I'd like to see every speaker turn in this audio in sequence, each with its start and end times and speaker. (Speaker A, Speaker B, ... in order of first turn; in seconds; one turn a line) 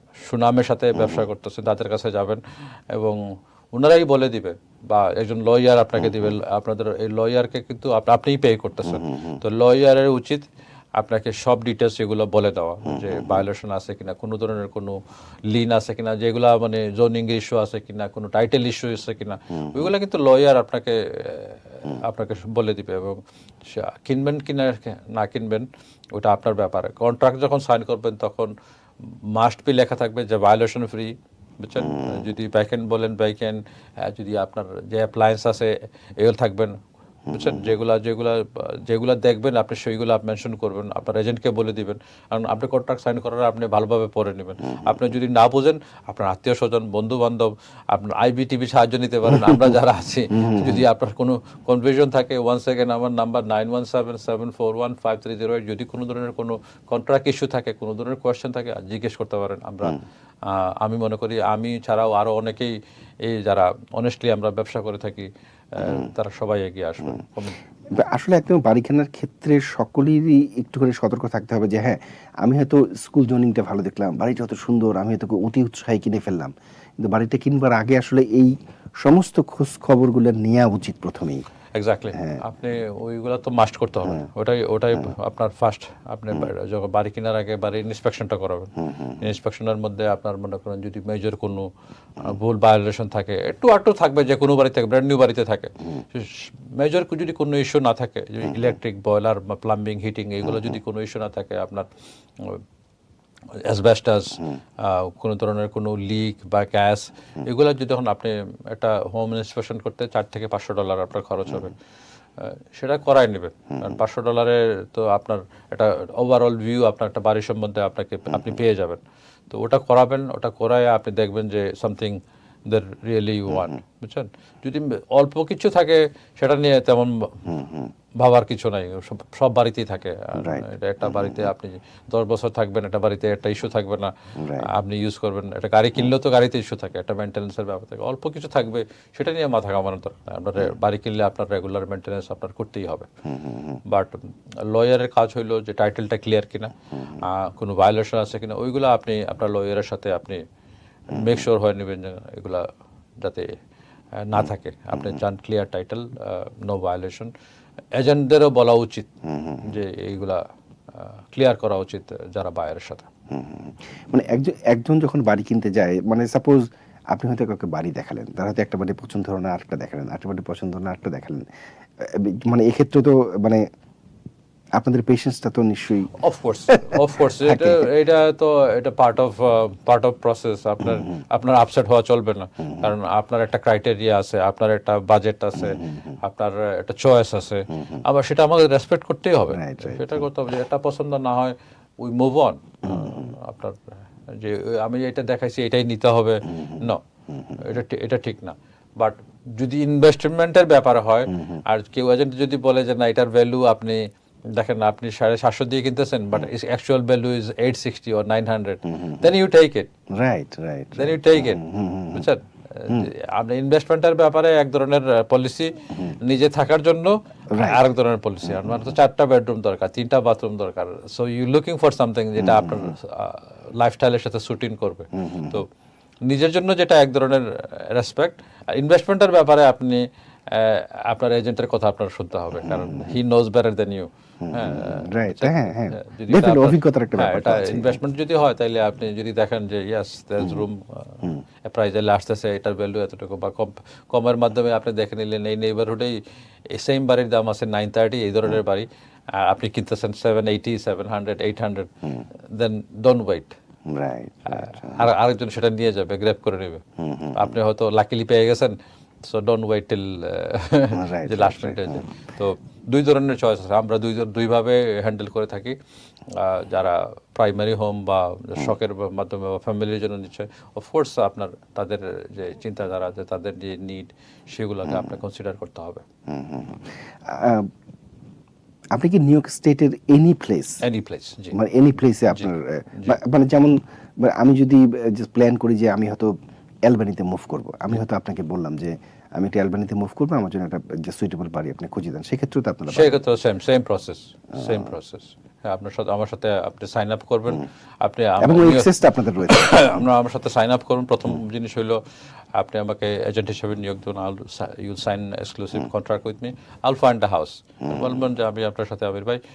Speaker A: 0.2-10.4
Speaker B: 1.0-1.2
Speaker B: 8.9-9.4
Speaker A: 11.0-28.5
Speaker B: 12.9-13.4
Speaker A: 29.4-67.6
Speaker B: 31.8-32.2
Speaker B: 37.3-37.7
Speaker B: 49.3-49.8
Speaker B: 50.3-50.8
Speaker B: 67.9-81.4
Speaker A: 81.7-101.9
Speaker B: 82.1-82.4
Speaker B: 88.9-89.2
Speaker A: 103.5-111.8
Speaker A: 112.4-127.6
Speaker B: 127.5-127.9
Speaker A: 128.2-143.1
Speaker B: 130.4-131.5
Speaker B: 134.4-134.7
Speaker B: 143.2-143.8
Speaker A: 143.8-150.4
Speaker A: 151.1-152.7
Speaker B: 151.1-151.4
Speaker A: 153.2-153.5
Speaker A: 154.2-157.3
Speaker A: 157.9-159.1
Speaker B: 159.2-159.7
Speaker A: 159.6-160.4
Speaker A: 160.9-163.1
Speaker B: 163.3-173.7
Speaker B: 174.7-176.2
Speaker A: 176.1-197.0
Speaker B: 176.7-177.9
Speaker B: 182.6-182.9
Speaker B: 185.6-186.2
Speaker B: 189.5-190.2
Speaker B: 192.8-193.3
Speaker B: 196.4-197.6
Speaker A: 197.6-209.9
Speaker B: 201.3-201.6
Speaker B: 209.0-209.3
Speaker B: 210.1-212.3
Speaker A: 210.9-225.7
Speaker B: 217.5-217.8
Speaker B: 218.4-218.9
Speaker B: 222.4-222.9
Speaker B: 225.1-225.6
Speaker A: 226.2-253.5
Speaker B: 232.6-233.1
Speaker B: 234.4-238.0
Speaker B: 253.9-255.1
Speaker A: 254.5-276.0
Speaker B: 257.0-257.6
Speaker B: 260.9-262.0
Speaker B: 276.3-277.7
Speaker B: 278.9-280.8
Speaker A: 280.8-281.6
Speaker B: 281.5-293.2
Speaker A: 282.3-283.2
Speaker A: 292.9-302.0
Speaker B: 294.6-294.9
Speaker B: 298.4-300.1
Speaker A: 302.5-309.4